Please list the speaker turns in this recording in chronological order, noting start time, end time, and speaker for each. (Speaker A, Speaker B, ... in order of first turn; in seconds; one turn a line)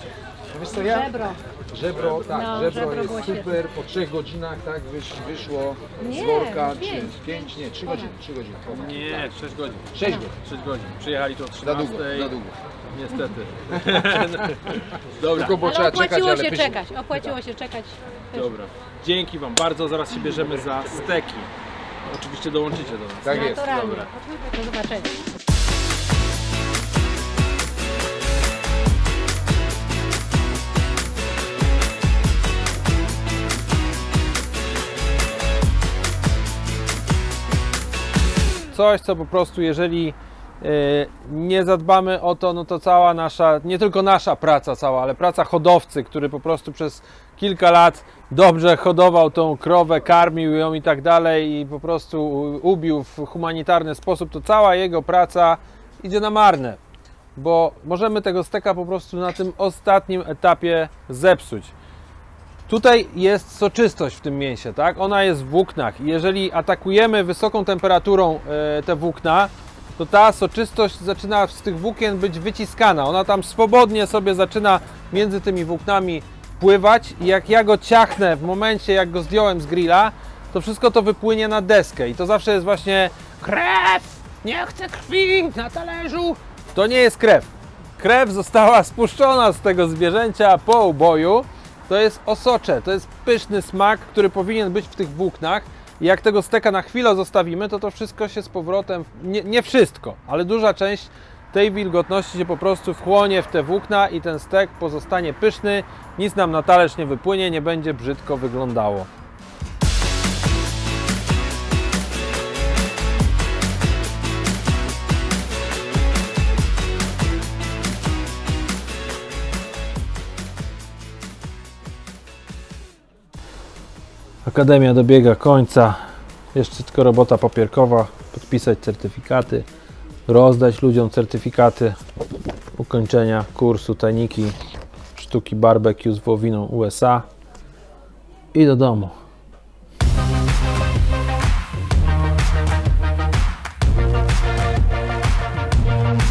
Speaker A: 0.5-9.3
Speaker B: 0.7-1.4
Speaker B: 2.3-3.5
Speaker B: 6.0-8.1
Speaker C: 8.7-12.4
Speaker A: 9.9-10.3
Speaker A: 11.6-12.6
Speaker C: 12.9-15.6
Speaker A: 15.3-16.8
Speaker B: 15.6-18.5
Speaker C: 18.3-21.5
Speaker C: 22.1-24.1
Speaker A: 23.2-23.6
Speaker B: 23.3-25.1
Speaker C: 38.7-56.8
Speaker C: 57.4-61.7
Speaker C: 62.7-109.1
Speaker C: 124.5-126.0
Speaker C: 126.5-129.7
Speaker C: 130.3-132.0
Speaker C: 132.8-134.6
Speaker C: 135.1-137.3
Speaker C: 138.5-139.2